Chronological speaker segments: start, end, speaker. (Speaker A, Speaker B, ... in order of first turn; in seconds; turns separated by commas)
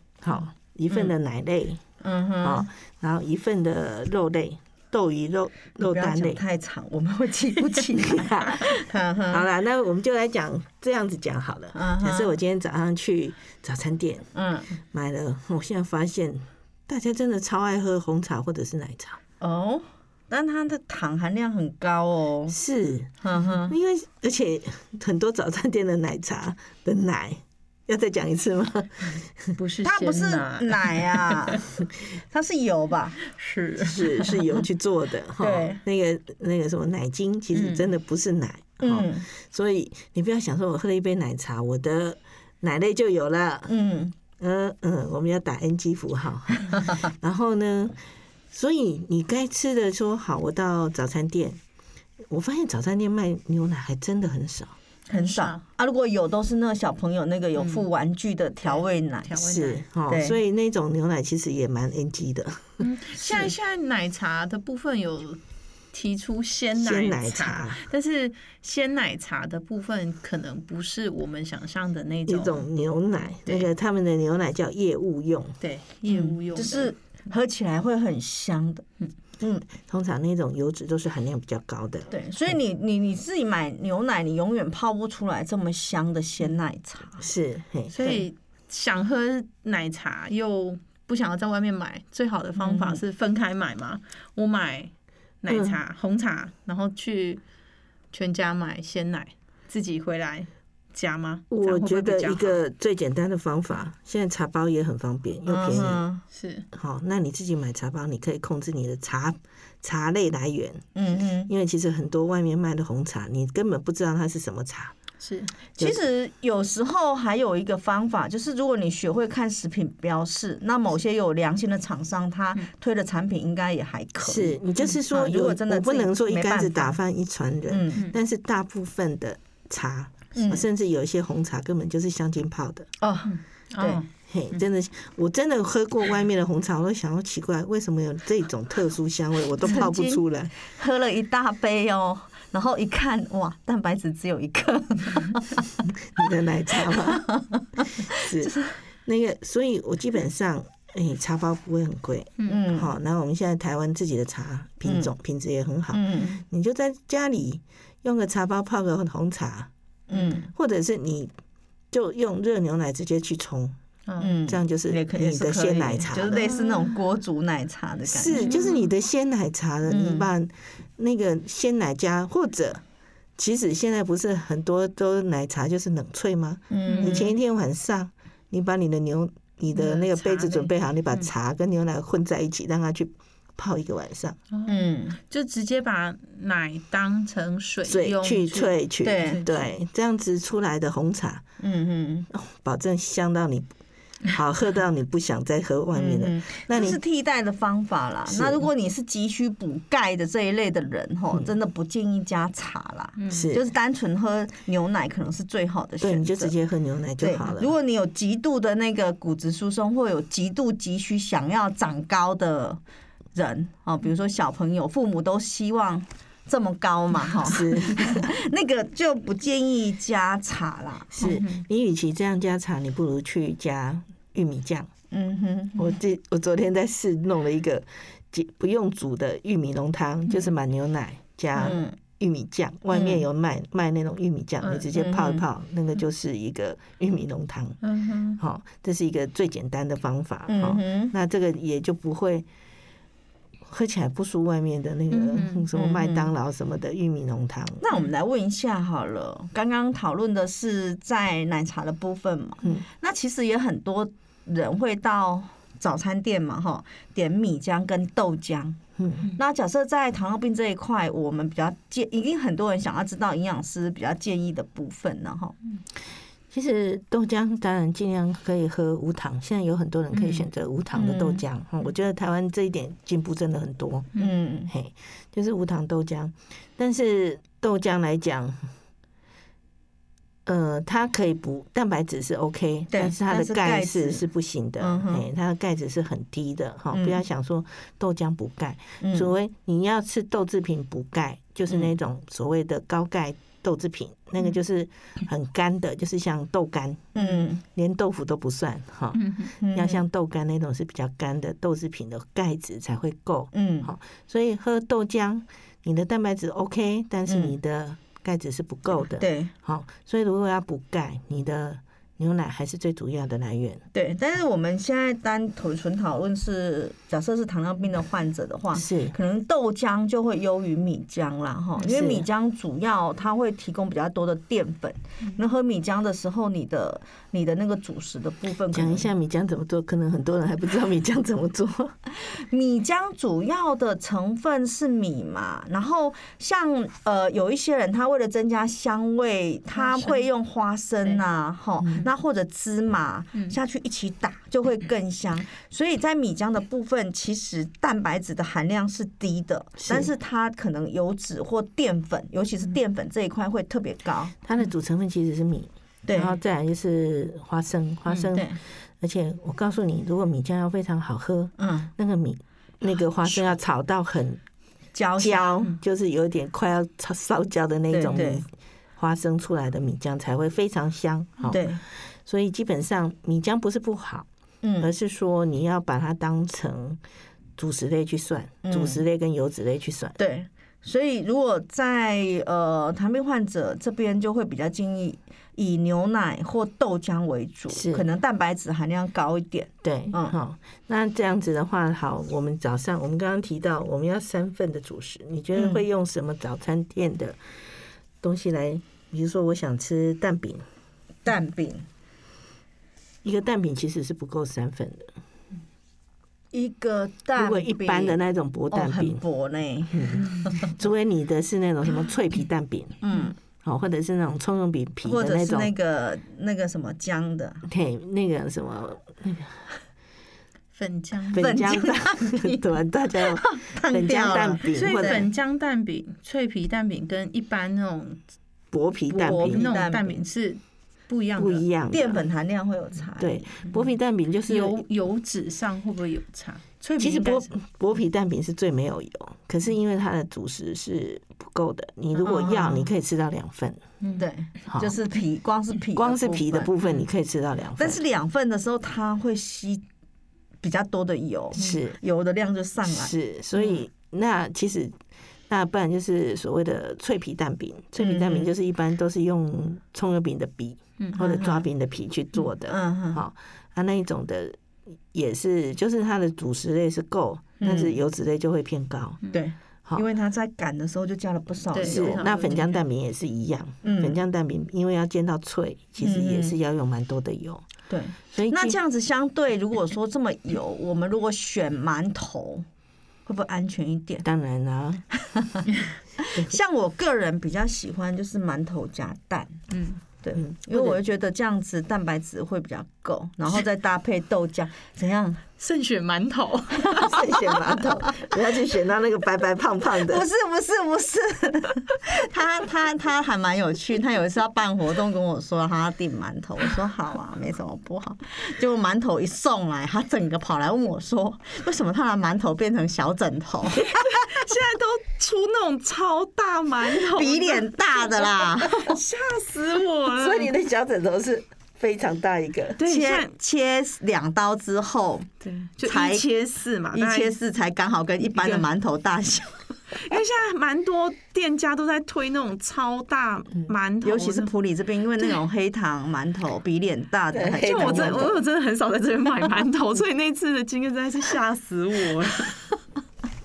Speaker A: 0.2-1.8, Speaker B: 2.0-2.7, Speaker A: 2.4-6.4, Speaker B: 5.8-9.4, Speaker A: 8.0-8.7, Speaker A: 9.3-14.3, Speaker B: 11.7-12.3, Speaker B: 14.3-14.7, Speaker A: 14.9-19.2, Speaker B: 19.4-22.6, Speaker A: 22.5-23.1, Speaker B: 23.2-23.7, Speaker A: 23.7-29.5, Speaker C: 29.6-31.5, Speaker B: 29.8-33.2, Speaker C: 33.3-34.5, Speaker A: 33.8-43.7, Speaker B: 35.4-35.8, Speaker C: 37.5-37.9, Speaker B: 38.8-39.2, Speaker B: 43.7-44.1, Speaker A: 44.4-48.0, Speaker A: 48.5-51.6, Speaker A: 52.3-54.7, Speaker B: 55.1-59.3, Speaker C: 55.1-55.6, Speaker C: 57.5-57.8, Speaker C: 58.6-59.8, Speaker A: 59.4-63.5, Speaker B: 60.1-60.4, Speaker C: 62.8-65.4, Speaker C: 65.9-72.7, Speaker A: 66.8-67.8, Speaker A: 72.3-75.5, Speaker C: 75.6-76.9, Speaker B: 76.1-78.8, Speaker B: 79.4-79.7, Speaker A: 79.7-82.1, Speaker B: 82.1-87.2, Speaker A: 87.2-88.0, Speaker C: 87.9-94.9, Speaker B: 92.6-93.0, Speaker C: 95.4-97.4, Speaker A: 95.5-95.8, Speaker C: 98.1-102.6, Speaker A: 101.5-106.0, Speaker B: 105.5-106.2, Speaker C: 106.3-106.7, Speaker A: 106.7-110.9, Speaker B: 110.9-111.5, Speaker A: 111.5-114.9, Speaker C: 115.2-115.5, Speaker B: 115.8-127.0, Speaker A: 124.2-132.9, Speaker B: 127.7-128.1, Speaker B: 130.3-130.6, Speaker B: 133.0-134.0, Speaker C: 133.2-134.6, Speaker A: 134.3-140.5, Speaker B: 139.6-146.3, Speaker A: 145.9-147.2, Speaker B: 146.8-148.7, Speaker A: 148.1-159.7, Speaker B: 152.4-152.9, Speaker B: 154.8-155.1, Speaker B: 155.9-156.4, Speaker B: 160.1-160.5, Speaker A: 160.5-161.3, Speaker A: 161.9-163.8, Speaker B: 164.2-168.6, Speaker A: 164.4-166.4, Speaker C: 166.4-167.0, Speaker A: 168.1-172.8, Speaker C: 168.3-168.8, Speaker B: 169.9-170.3, Speaker A: 173.4-184.4, Speaker B: 176.7-177.3, Speaker C: 176.9-177.3, Speaker C: 179.7-181.3, Speaker C: 184.5-189.7, Speaker B: 184.7-185.2, Speaker A: 187.8-191.4, Speaker B: 189.0-189.4, Speaker B: 191.6-192.3, Speaker A: 192.3-193.7, Speaker A: 194.3-197.0, Speaker B: 195.9-206.5, Speaker A: 198.3-198.6, Speaker C: 203.2-203.5, Speaker A: 203.3-203.6, Speaker A: 206.0-207.7, Speaker B: 207.2-212.8, Speaker B: 213.3-221.2, Speaker A: 217.4-218.3, Speaker A: 221.1-224.9, Speaker C: 221.2-221.6, Speaker B: 225.1-225.9, Speaker A: 225.8-237.8, Speaker B: 231.5-231.9, Speaker B: 232.9-233.2, Speaker C: 234.6-235.2, Speaker B: 234.9-235.4, Speaker C: 237.8-238.4, Speaker A: 238.4-242.4, Speaker B: 240.5-241.1, Speaker A: 243.7-247.8, Speaker C: 245.1-245.7, Speaker B: 245.7-246.3, Speaker B: 247.8-258.8, Speaker A: 259.0-259.3, Speaker B: 259.3-265.6, Speaker A: 266.5-274.1, Speaker C: 270.1-270.4, Speaker B: 270.9-271.4, Speaker B: 274.2-274.7, Speaker A: 274.7-278.7, Speaker A: 280.4-313.8, Speaker B: 282.9-284.2, Speaker B: 284.8-285.2, Speaker B: 286.9-287.2, Speaker B: 289.0-289.3, Speaker B: 297.1-297.6, Speaker C: 299.1-299.5, Speaker B: 299.6-300.0, Speaker B: 303.5-303.9, Speaker B: 307.3-307.5, Speaker B: 309.2-309.5, Speaker B: 313.9-329.1, Speaker A: 318.7-319.1, Speaker A: 321.8-322.2, Speaker A: 328.7-331.9, Speaker B: 332.1-354.3, Speaker C: 339.7-340.2, Speaker A: 349.8-350.1, Speaker A: 354.4-364.4, Speaker B: 356.1-356.3, Speaker C: 358.1-358.3, Speaker B: 358.3-358.6, Speaker B: 361.6-361.9, Speaker B: 364.9-365.7, Speaker A: 365.2-374.3, Speaker B: 367.9-368.4, Speaker B: 371.5-371.8, Speaker B: 374.6-374.9, Speaker A: 374.8-377.0, Speaker A: 377.6-380.2, Speaker B: 378.6-379.0, Speaker B: 380.2-390.4, Speaker A: 387.7-388.0, Speaker A: 389.8-397.4, Speaker B: 395.5-395.8, Speaker A: 398.2-400.6, Speaker B: 401.2-401.9, Speaker A: 403.2-405.1, Speaker B: 406.5-408.2, Speaker A: 407.4-409.2, Speaker B: 408.7-410.7, Speaker A: 409.9-413.0, Speaker B: 413.0-413.3, Speaker A: 413.6-415.7, Speaker B: 415.0-417.6, Speaker A: 417.6-419.6, Speaker C: 420.7-421.5, Speaker A: 421.3-425.2, Speaker B: 421.4-422.6, Speaker B: 423.2-425.3, Speaker C: 424.7-428.2, Speaker A: 428.7-429.6, Speaker B: 429.1-430.2, Speaker C: 429.2-431.6, Speaker A: 431.4-432.2, Speaker B: 431.9-433.6, Speaker A: 433.2-434.8, Speaker C: 434.5-437.5, Speaker A: 437.0-443.8, Speaker B: 442.1-442.9, Speaker B: 444.2-446.7, Speaker A: 444.7-444.9, Speaker A: 445.9-448.0, Speaker B: 447.8-449.8, Speaker B: 450.6-453.1, Speaker A: 451.6-452.0, Speaker A: 452.9-454.9, Speaker A: 455.5-464.6, Speaker B: 458.0-458.5, Speaker B: 461.1-461.6, Speaker B: 462.7-463.2, Speaker A: 465.1-469.2, Speaker B: 467.6-467.9, Speaker B: 469.3-472.2, Speaker C: 471.7-472.8, Speaker A: 471.8-477.6, Speaker B: 473.8-474.2, Speaker B: 476.0-476.5, Speaker B: 477.9-482.6, Speaker A: 478.3-478.8, Speaker B: 483.2-484.2, Speaker A: 484.2-485.0, Speaker B: 485.1-485.7, Speaker B: 486.2-489.6, Speaker C: 489.7-490.0, Speaker B: 490.2-495.4, Speaker A: 490.3-491.0, Speaker C: 495.6-497.2, Speaker A: 496.9-500.2, Speaker B: 497.1-498.3, Speaker B: 500.0-514.1, Speaker C: 513.9-520.5, Speaker B: 517.1-519.0, Speaker A: 520.1-522.8, Speaker C: 522.8-523.3, Speaker B: 522.8-525.3, Speaker C: 525.4-527.4, Speaker B: 525.8-526.3, Speaker B: 526.9-529.6, Speaker C: 528.3-528.6, Speaker C: 529.9-534.5, Speaker B: 534.0-538.3, Speaker A: 537.3-538.4, Speaker C: 537.6-542.7